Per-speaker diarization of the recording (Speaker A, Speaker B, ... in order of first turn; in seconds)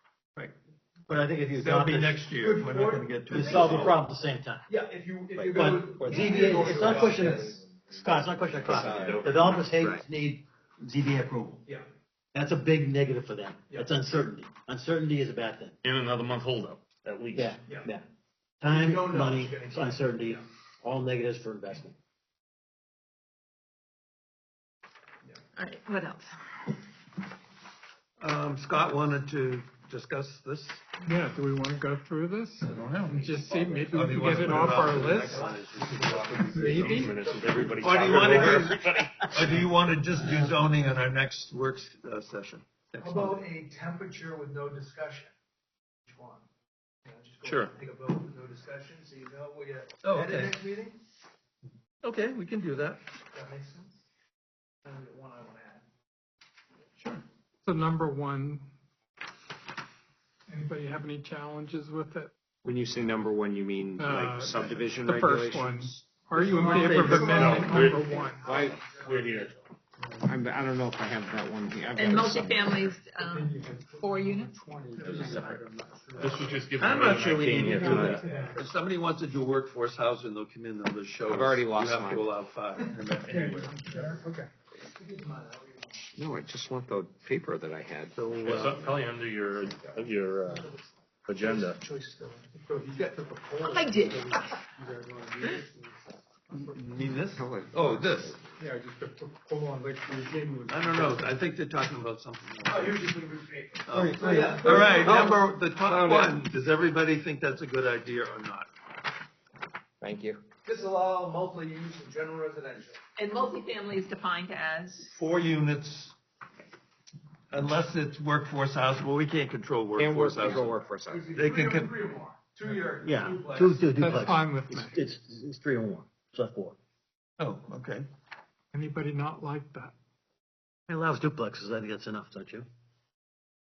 Speaker A: 1.1-2.2, 3.3-4.7, 5.5-11.7, 12.3-15.8, 17.3-18.1, 18.6-22.0, 103.9-104.8, 123.0-126.8, 130.9-132.7
Speaker B: 1.6-4.0, 28.2-30.9, 32.6-43.4, 50.0-50.6, 52.0-53.0, 57.0-57.2, 66.3-67.7, 76.7-83.9, 88.2-88.9, 96.5-98.4, 100.7-103.0, 103.9-108.7, 115.1-116.2, 117.5-120.8, 121.3-121.9, 127.4-128.1
Speaker C: 1.6-3.1, 4.7-7.6, 18.7-20.4, 34.1-38.7, 43.0-45.3, 46.1-46.5, 47.0-51.0, 53.3-54.0, 54.9-55.9, 66.5-69.6, 78.1-78.6, 83.8-84.2, 84.8-86.1, 89.8-95.6, 102.7-105.3, 110.7-113.0, 120.6-124.1
Speaker D: 3.3-3.9, 25.6-26.3, 72.0-75.5, 93.7-94.3, 113.2-115.1
Speaker E: 5.4-7.5, 8.6-9.3, 62.6-66.0, 68.4-68.8, 70.2-72.9, 75.0-75.5, 77.7-78.2, 81.3-82.3, 86.2-88.2, 97.3-98.4, 105.0-106.3, 110.0-110.4, 120.0-121.3
Speaker F: 8.7-9.9, 15.8-17.6, 35.9-39.6, 47.5-47.7, 67.3-68.1, 68.9-69.6, 75.1-75.4, 76.2-78.3, 88.4-90.7, 91.3-91.8
Speaker G: 31.0-35.5, 36.4-37.2, 57.6-58.7, 60.5-62.3, 64.0-68.6, 73.2-75.7, 77.5-78.6, 83.9-84.5, 99.3-101.1, 124.0-125.0, 128.7-129.9